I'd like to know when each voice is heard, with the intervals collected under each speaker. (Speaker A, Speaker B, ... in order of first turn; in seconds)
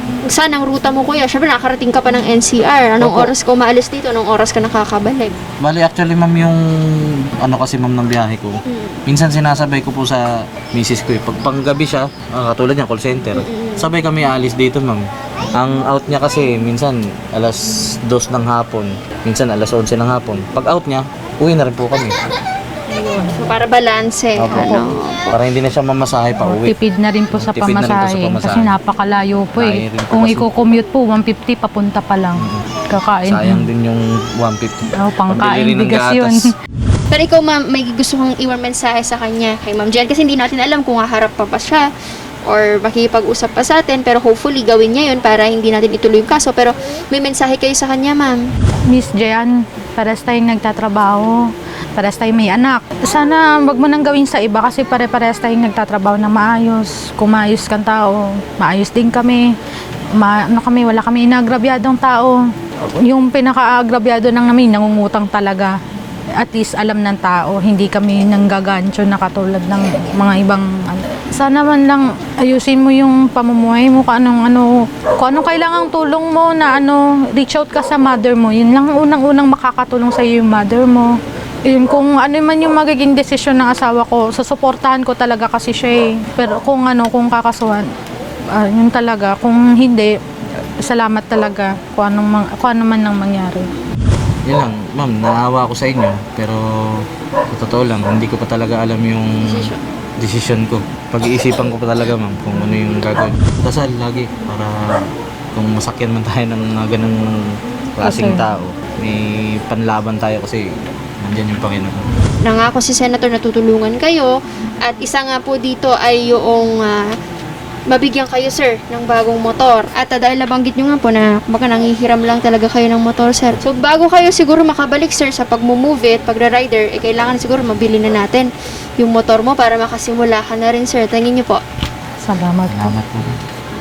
Speaker A: 0.2-5.4, 8.7-9.0, 13.3-13.9, 22.9-25.4, 37.1-41.9, 42.5-48.5, 99.4-99.8, 112.4-117.0, 117.9-131.6
Speaker B: 3.0-3.3, 5.6-22.2, 24.4-26.8, 27.3-28.7, 29.6-30.6, 32.4-32.6, 33.3-36.5, 94.5-107.2, 108.0-110.7, 111.2-112.0, 132.7-133.3
Speaker C: 26.4-33.7, 34.9-36.5, 48.9-51.4, 52.0-59.4, 60.2-62.4, 62.9-65.8, 66.4-87.9, 88.6-90.2, 90.8-93.7, 108.0-108.5, 132.2-132.9